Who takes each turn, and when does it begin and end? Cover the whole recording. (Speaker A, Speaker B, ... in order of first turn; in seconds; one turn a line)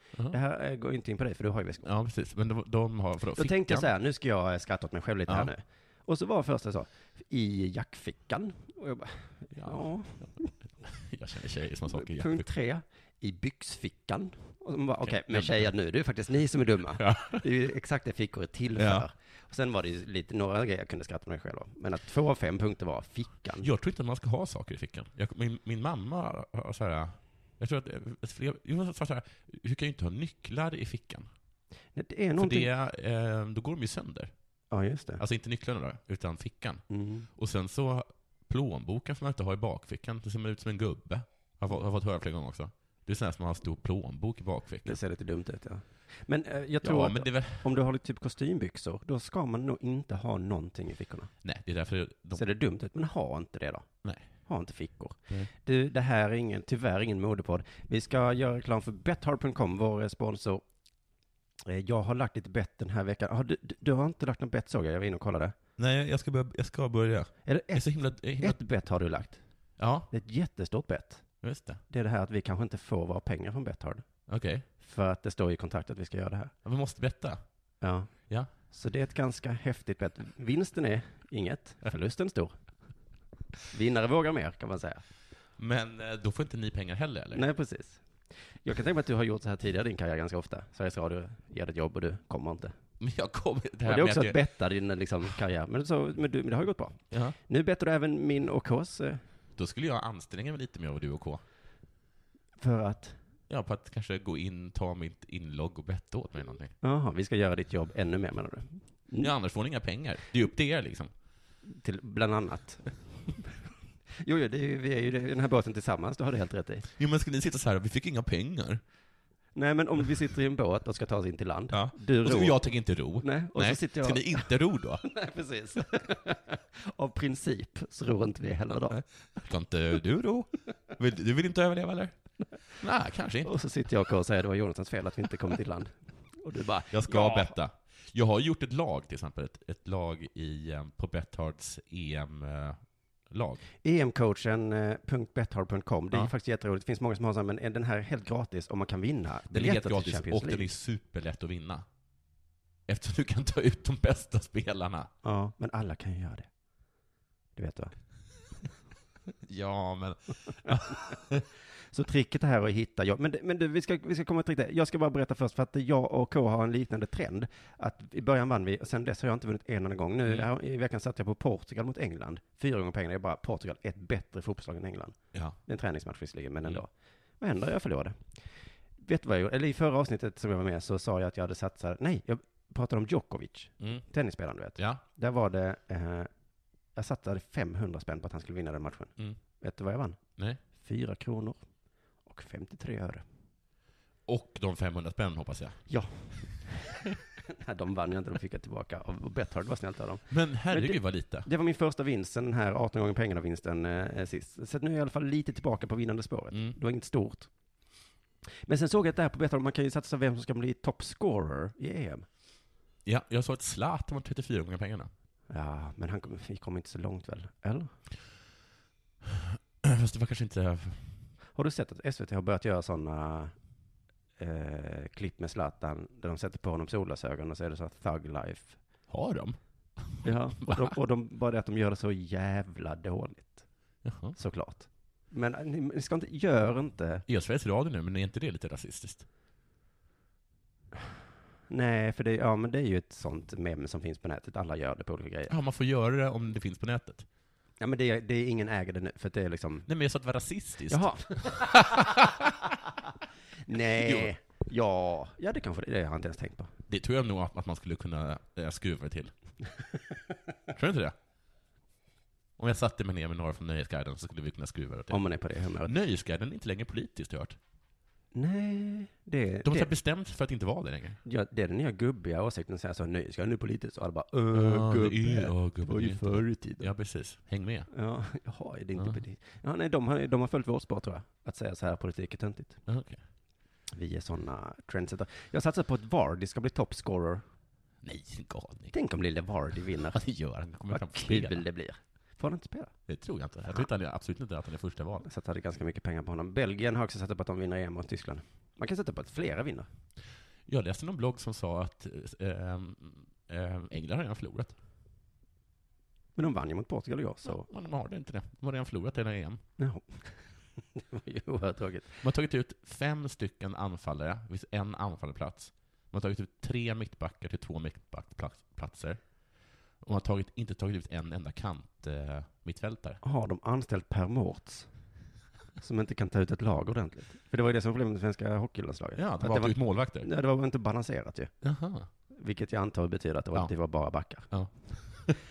Speaker A: 0.3-1.9
Speaker B: 1.8-3.9
Speaker A: 3.4-10.5
Speaker B: 9.5-12.4
Speaker A: 11.9-23.7
Speaker B: 15.0-15.7
Speaker B: 17.0-17.4
Speaker B: 18.8-19.1
Speaker B: 23.6-31.3
Speaker A: 31.9-32.7
Speaker B: 32.4-34.3
Speaker A: 34.7-35.2
Speaker B: 35.2-36.8
Speaker A: 36.9-37.3
Speaker B: 37.4-45.0
Speaker A: 44.9-51.3
Speaker B: 46.8-47.7
Speaker B: 51.4-52.4
Speaker A: 52.3-53.9
Speaker A: 54.5-60.6
Speaker A: 61.7-65.5
Speaker B: 65.8-68.6
Speaker A: 67.5-69.4
Speaker B: 69.8-70.1
Speaker A: 70.1-71.3
Speaker B: 71.4-71.8
Speaker A: 71.9-74.0
Speaker B: 74.3-74.7
Speaker A: 74.8-76.5
Speaker B: 76.7-77.4
Speaker A: 77.8-82.5
Speaker A: 83.7-85.0
Speaker B: 85.6-87.5
Speaker A: 87.3-92.8
Speaker B: 93.0-94.4
Speaker A: 93.9-99.2
Speaker B: 97.1-97.4
Speaker B: 99.6-101.4
Speaker A: 102.6-103.2
Speaker B: 103.5-106.7
Speaker A: 106.8-109.3
Speaker B: 109.2-111.1
Speaker A: 111.6-113.5
Speaker A: 114.2-116.9
Speaker B: 117.0-118.8
Speaker A: 119.5-122.6
Speaker B: 121.7-125.1
Speaker A: 123.2-124.5
Speaker A: 125.1-129.0
Speaker B: 128.9-132.2
Speaker B: 132.8-133.5
Speaker A: 133.4-137.6
Speaker B: 136.9-143.6
Speaker A: 143.8-150.7
Speaker B: 149.5-151.9
Speaker B: 152.9-155.1
Speaker A: 155.2-156.5
Speaker A: 157.6-157.9
Speaker B: 159.4-161.4
Speaker A: 161.9-178.4
Speaker B: 175.3-175.6
Speaker A: 179.0-186.3
Speaker B: 183.8-184.1
Speaker A: 186.9-190.2
Speaker A: 190.8-191.6
Speaker A: 192.2-193.2
Speaker B: 194.3-195.9
Speaker A: 195.9-197.0
Speaker A: 197.6-207.5
Speaker B: 200.3-201.5
Speaker A: 208.7-212.3
Speaker B: 213.1-215.1
Speaker A: 215.5-217.9
Speaker B: 219.2-221.2
Speaker A: 221.6-223.5
Speaker A: 224.4-228.8
Speaker B: 229.1-230.9
Speaker A: 230.2-233.7
Speaker B: 234.0-234.4
Speaker A: 234.3-237.2
Speaker B: 237.3-239.3
Speaker A: 241.7-245.5
Speaker B: 245.5-247.3
Speaker A: 247.8-249.9
Speaker B: 249.9-252.5
Speaker A: 250.9-252.3
Speaker A: 253.7-256.7
Speaker B: 253.9-254.3
Speaker B: 256.9-259.3
Speaker B: 260.7-261.1
Speaker B: 262.6-265.2
Speaker A: 265.1-265.9
Speaker B: 265.8-267.6
Speaker A: 268.3-269.9
Speaker B: 269.6-271.2
Speaker A: 271.2-276.9
Speaker B: 274.5-277.9
Speaker A: 277.9-282.8
Speaker B: 282.9-283.2
Speaker A: 283.9-287.4
Speaker B: 288.0-288.9
Speaker A: 288.9-290.2
Speaker B: 290.1-291.6
Speaker A: 290.9-292.9
Speaker B: 293.1-295.2
Speaker A: 295.2-299.9
Speaker B: 300.7-304.7
Speaker A: 306.4-307.7
Speaker B: 307.4-309.6
Speaker A: 309.8-312.2
Speaker B: 312.2-319.2
Speaker B: 320.0-323.2
Speaker A: 323.2-324.9
Speaker A: 325.8-331.5
Speaker B: 329.2-330.3
Speaker B: 331.6-332.1
Speaker A: 332.3-334.5
Speaker B: 334.5-335.4